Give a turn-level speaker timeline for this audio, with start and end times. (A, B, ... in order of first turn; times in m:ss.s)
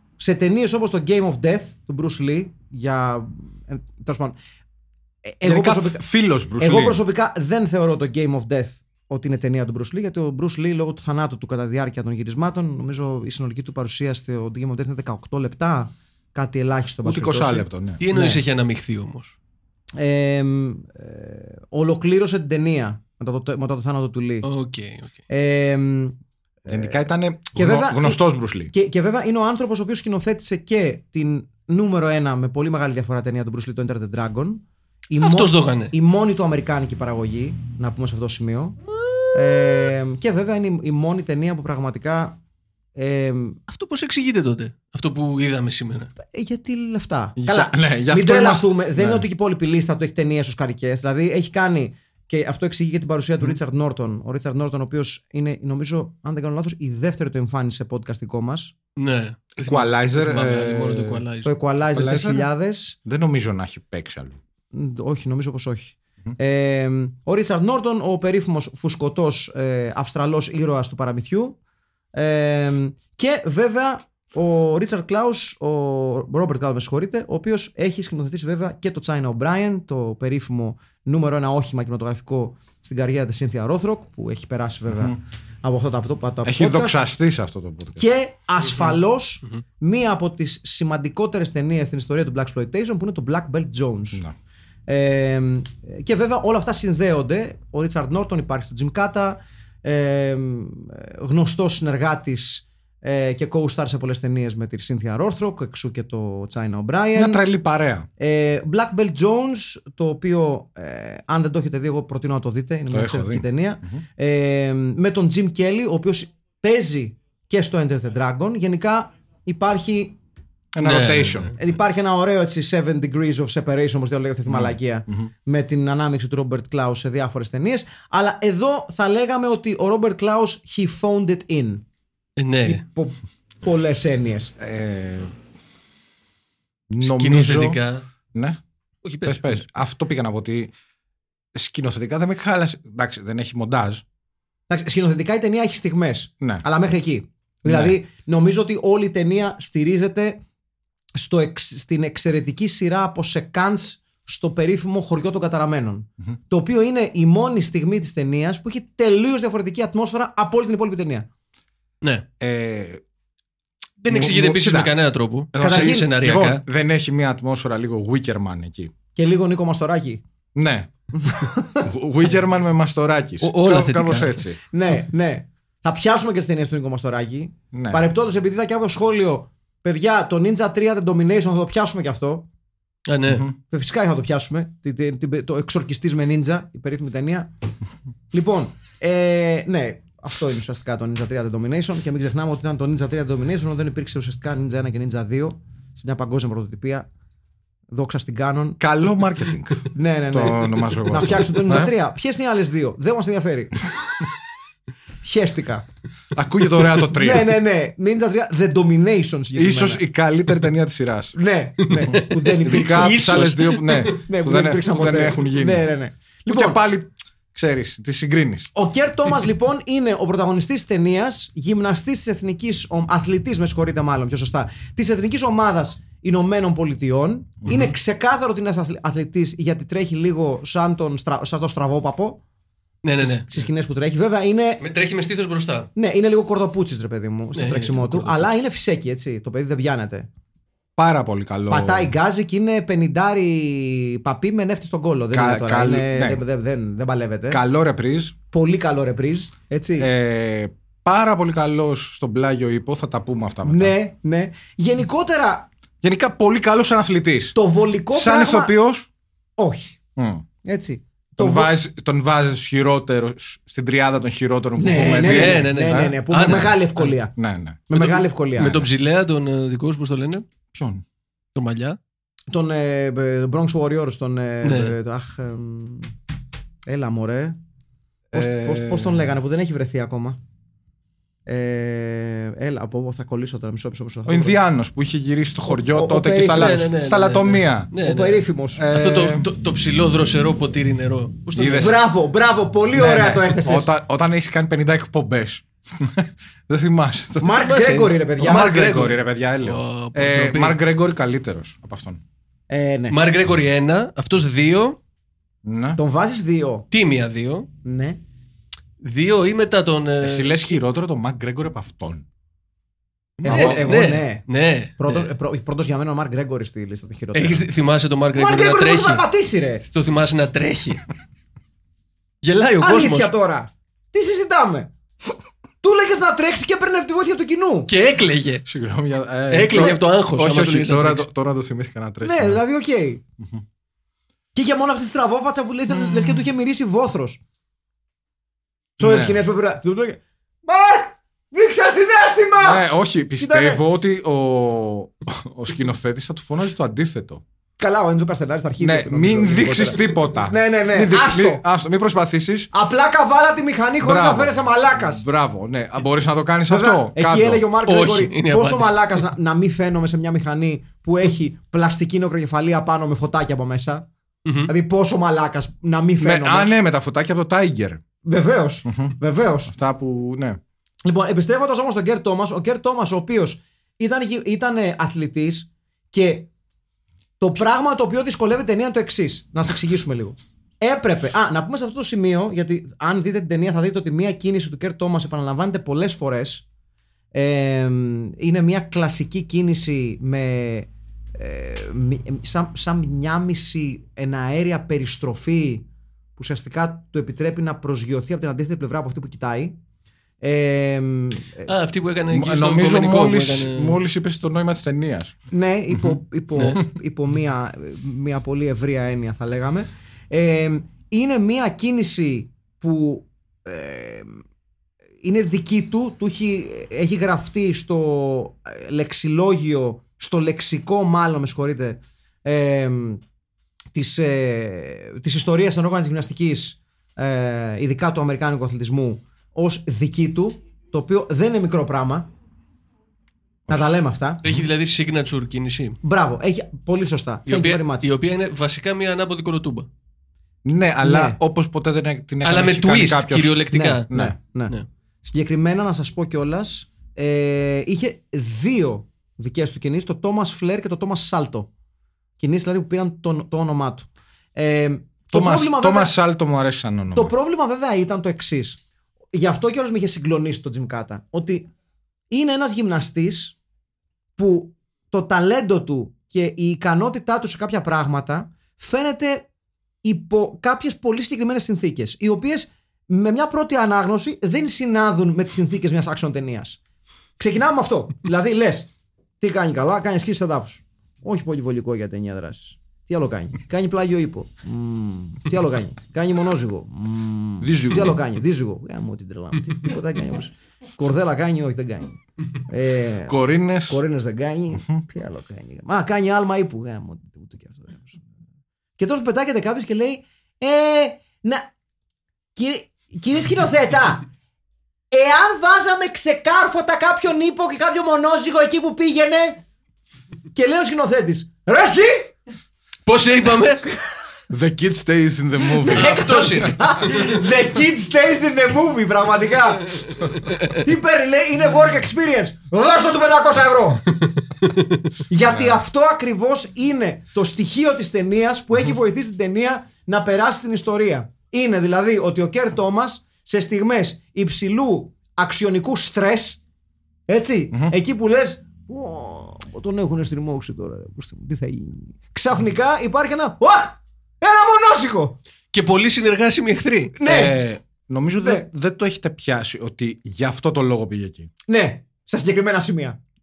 0:00.2-0:04.4 A
0:05.2-0:06.0 A
0:05.4-0:07.0 B
0:06.6-0:18.4 A
0:17.0-0:18.0 B
0:18.0-0:19.4 C
0:20.0-0:24.5 A
0:24.4-0:25.1 C
0:25.3-0:27.0 A
0:26.7-0:28.7 B
0:27.6-0:38.8 A
0:35.2-0:35.9 C
0:39.3-0:42.4 A
0:43.0-0:43.6 A
0:43.7-0:46.1 C
0:46.2-0:58.7 A
0:47.4-0:49.2 B
0:59.0-1:01.6 C
0:59.6-1:01.2 B
1:01.4-1:03.0 A
1:01.9-1:02.5 B
1:03.0-1:04.4 B
1:04.7-1:11.6 A
1:12.1-1:27.0 A
1:24.9-1:25.2 B
1:26.4-1:28.0 B
1:28.0-1:34.2 A
1:34.9-1:47.4 A
1:47.2-1:48.1 B
1:48.2-2:00.2 A
1:52.9-1:54.0 B
2:00.7-2:01.5 B
2:00.8-2:01.5 C
2:01.6-2:11.8 A
2:04.5-2:05.3 B
2:12.4-2:12.8 C
2:12.6-2:14.5 A
2:14.6-2:15.3 B
2:16.9-2:17.8 B
2:17.0-2:18.0 C
2:18.3-2:18.6 B
2:19.0-2:19.5 C
2:19.2-2:20.7 B
2:21.6-2:24.0 B
2:24.7-2:30.4 A
2:27.7-2:28.0 B
2:31.2-2:41.3 A
2:42.4-2:43.0 B
2:44.0-2:46.6 C
2:44.1-2:44.9 B
2:45.5-2:48.9 B
2:45.6-2:46.1 A
2:49.2-2:50.2 A
2:50.6-2:50.9 B
2:51.2-2:51.9 A
2:51.8-2:54.6 B
2:53.4-2:54.4 C
2:54.7-3:02.5 A
2:57.7-2:58.0 B
3:03.1-3:03.5 C
3:03.3-3:03.5 B
3:03.7-3:07.5 A
3:08.3-3:17.1 A
3:17.9-3:18.8 A
3:18.8-3:21.9 B
3:19.9-3:23.9 A
3:25.2-3:25.9 A
3:26.3-3:27.6 B
3:27.1-3:30.0 A
3:29.6-3:31.4 B
3:31.3-3:33.4 A
3:31.9-3:34.1 C
3:32.0-3:35.9 B
3:34.1-3:36.8 A
3:36.5-3:38.7 B
3:38.7-3:52.4 A
3:53.0-3:53.6 C
3:53.1-3:54.8 A
3:54.8-3:55.9 C
3:56.0-4:00.3 A
3:57.6-3:58.4 C
4:01.0-4:02.1 B
4:01.7-4:07.6 A
4:05.3-4:06.4 B
4:07.5-4:08.4 B
4:08.5-4:10.1 A
4:10.0-4:14.0 B
4:13.6-4:15.7 A
4:16.0-4:17.6 B
4:17.6-4:18.8 A
4:18.1-4:19.1 B
4:19.6-4:20.0 A
4:20.2-4:20.4 B
4:20.6-4:21.7 A
4:21.4-4:26.8 B
4:24.8-4:27.3 A
4:24.9-4:27.1 C
4:27.4-4:27.8 B
4:27.9-4:28.9 A
4:27.9-4:30.4 C
4:30.7-4:31.0 B
4:31.6-4:32.0 C
4:32.5-4:36.1 A
4:34.6-4:34.9 C
4:36.9-4:37.6 A
4:38.3-4:40.4 A
4:38.3-4:39.2 B
4:41.5-4:44.6 A
4:44.3-4:47.9 B
4:45.7-4:46.8 A
4:46.5-4:52.0 C
4:48.0-4:48.8 A
4:48.8-4:49.5 B
4:51.6-4:52.0 B
4:51.7-4:53.9 A
4:53.0-4:57.7 B
4:53.0-4:53.4 C
4:57.4-4:58.8 A
4:57.6-5:00.8 C
4:58.4-5:02.2 B
5:02.7-5:03.2 A
5:03.1-5:05.0 C
5:05.6-5:06.0 B
5:06.0-5:06.9 A
5:06.9-5:07.7 C
5:07.8-5:08.2 A
5:09.0-5:10.8 C
5:10.2-5:12.2 B
5:13.4-5:13.9 B
5:13.4-5:15.3 C
5:13.4-5:14.4 A
5:15.0-5:17.7 A
5:17.3-5:19.2 C
5:18.4-5:19.9 A
5:19.9-5:21.0 C
5:22.4-5:23.3 C
5:22.8-5:24.9 A
5:25.8-5:27.9 A
5:27.9-5:28.6 C
5:28.7-5:32.6 B
5:29.5-5:31.3 C
5:32.2-5:33.2 A
5:34.6-5:37.4 A
5:39.0-5:42.9 A
5:39.0-5:39.4 B
5:42.6-5:47.4 B
5:43.4-5:43.8 A
5:47.8-5:51.6 A
5:48.8-5:52.7 B
5:52.7-5:55.2 A
5:54.0-5:57.6 B
5:56.7-6:04.1 A
5:57.9-5:59.2 C
6:04.4-6:04.7 C
6:04.6-6:06.7 A
6:06.2-6:08.0 B
6:08.2-6:09.7 A
6:08.9-6:09.2 B
6:09.7-6:10.6 B
6:11.0-6:16.5 A
6:17.4-6:26.6 A
6:27.3-6:39.8 A
6:40.4-6:41.7 A
6:41.7-6:44.0 C
6:42.3-6:45.4 B
6:45.5-6:54.4 A
6:55.2-7:03.2 A
7:03.9-7:12.3 A
7:13.7-7:14.4 A
7:14.4-7:16.0 C
7:16.0-7:18.1 A
7:17.5-7:19.9 C
7:20.6-7:24.4 B
7:21.0-7:21.4 A
7:22.4-7:24.1 C
7:23.7-7:31.7 A
7:32.4-7:36.1 A
7:35.3-7:37.3 B
7:37.2-7:38.8 A
7:39.3-7:41.7 A
7:42.3-7:43.6 A
7:44.4-7:49.5 A
7:50.0-7:56.8 A
7:57.4-8:18.2 A
8:07.6-8:08.2 B
8:13.3-8:14.0 B
8:19.0-8:21.7 A
8:22.6-8:24.2 A
8:25.1-8:29.6 A
8:30.5-8:32.4 A
8:33.1-8:33.8 C
8:34.5-8:36.2 B
8:35.8-8:44.1 A
8:35.8-8:36.8 C
8:45.3-8:56.6 A
8:45.5-8:45.8 B
8:57.3-9:05.4 A
9:05.7-9:07.2 C
9:07.2-9:07.6 A
9:07.2-9:11.5 B
9:08.4-9:08.7 A
9:11.7-9:13.2 A